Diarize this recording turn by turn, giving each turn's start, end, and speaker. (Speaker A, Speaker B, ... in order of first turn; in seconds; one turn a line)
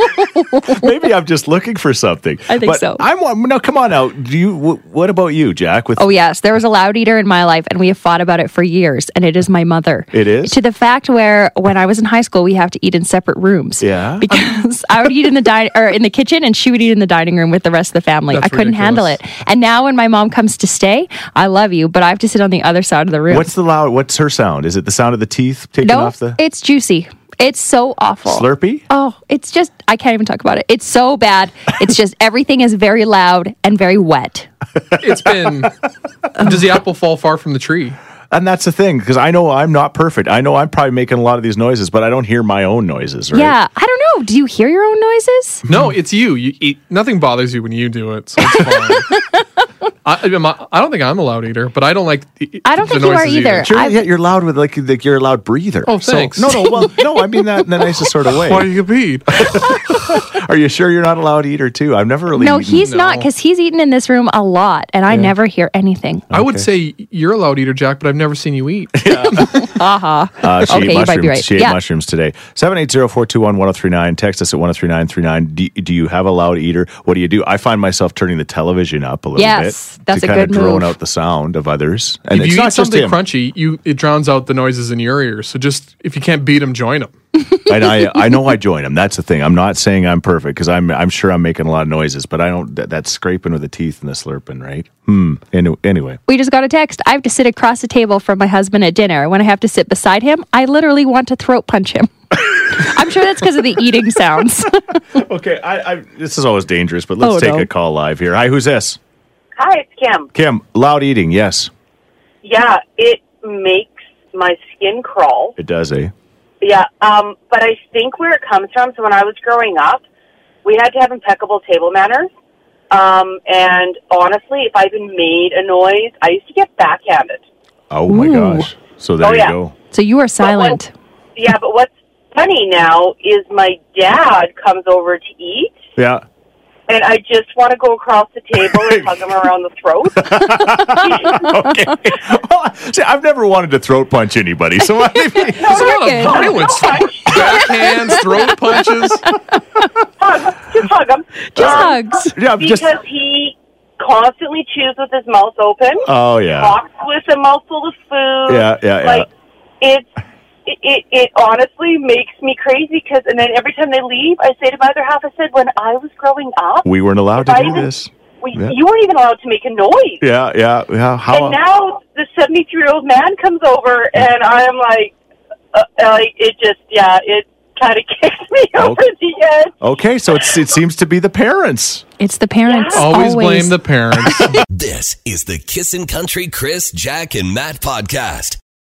Speaker A: 0.7-6.0
Speaker B: 2.5-3.0
Speaker B: 6.0-23.5
Speaker A: 10.1-10.6
Speaker A: 13.8-14.3
Speaker C: 18.3-19.2
Speaker A: 23.3-26.4
Speaker B: 25.8-34.5
Speaker A: 28.2-28.9
Speaker C: 35.0-35.7
Speaker C: 36.4-38.0
Speaker A: 38.3-43.5
Speaker B: 43.3-45.6
Speaker C: 45.7-49.1
Speaker B: 48.6-49.2
Speaker C: 50.0-53.7
Speaker B: 52.6-54.0
Speaker A: 53.6-58.7
Speaker C: 55.9-56.7
Speaker B: 56.6-57.0
Speaker C: 58.4-59.4
Speaker A: 59.4-62.9
Speaker B: 62.4-66.2
Speaker C: 62.8-63.3
Speaker A: 66.3-66.7
Speaker C: 66.3-69.5
Speaker A: 69.0-69.6
Speaker B: 69.1-71.8
Speaker A: 70.4-83.2
Speaker B: 79.4-80.9
Speaker C: 82.3-87.1
Speaker A: 87.7-96.2
Speaker B: 96.3-105.0
Speaker A: 105.1-109.0
Speaker B: 107.2-107.7
Speaker D: 109.5-110.3
Speaker A: 110.3-111.7
Speaker D: 112.4-115.5
Speaker A: 115.6-116.1
Speaker D: 116.6-120.0
Speaker D: 120.6-122.3
Speaker D: 122.9-127.4
Speaker A: 127.9-129.7
Speaker B: 128.1-128.7
Speaker D: 129.2-129.5
Speaker B: 129.9-130.9
Speaker D: 130.4-130.8
Speaker D: 131.4-135.8
Speaker A: 135.9-136.2
Speaker D: 136.9-141.4
Speaker A: 138.7-139.1
Speaker A: 140.2-145.8
Speaker B: 145.3-146.7
Speaker D: 145.6-147.6
Speaker C: 145.7-149.2
Speaker B: 147.3-148.2
Speaker D: 150.2-159.3
Speaker B: 151.5-152.3
Speaker A: 151.6-152.9
Speaker A: 156.0-156.8
Speaker A: 158.5-159.3
Speaker D: 159.8-160.1
Speaker D: 160.7-167.9
Speaker A: 166.8-168.8
Speaker D: 168.4-170.2
Speaker A: 170.2-171.6
Speaker D: 171.3-175.1
Speaker D: 175.7-179.7
Speaker A: 178.8-179.1
Speaker A: 179.8-182.0
Speaker B: 182.2-183.8
Speaker D: 182.7-183.1
Speaker C: 182.9-184.6
Speaker E: 184.7-188.6